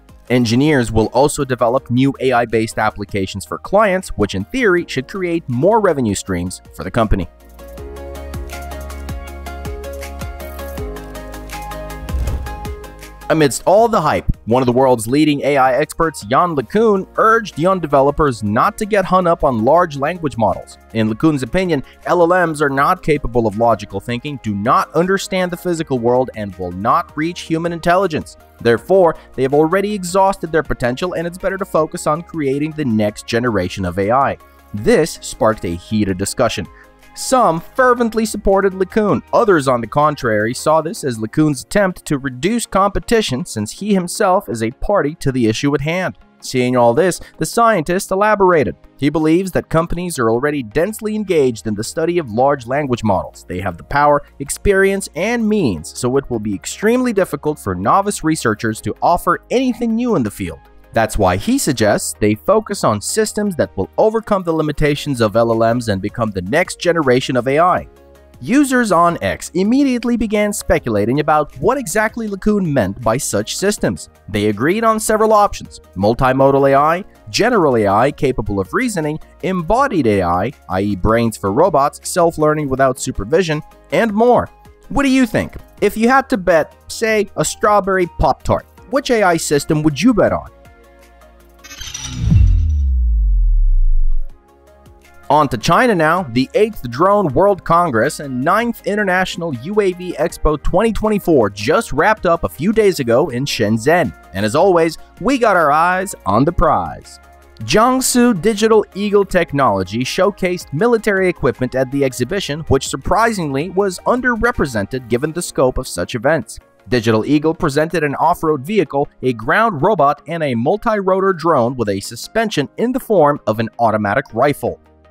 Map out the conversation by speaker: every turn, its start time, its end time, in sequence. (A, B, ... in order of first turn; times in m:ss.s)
0:00.3-0:07.3 A
0:13.3-1:07.9 A
1:08.4-1:30.5 A
1:35.3-2:04.8 A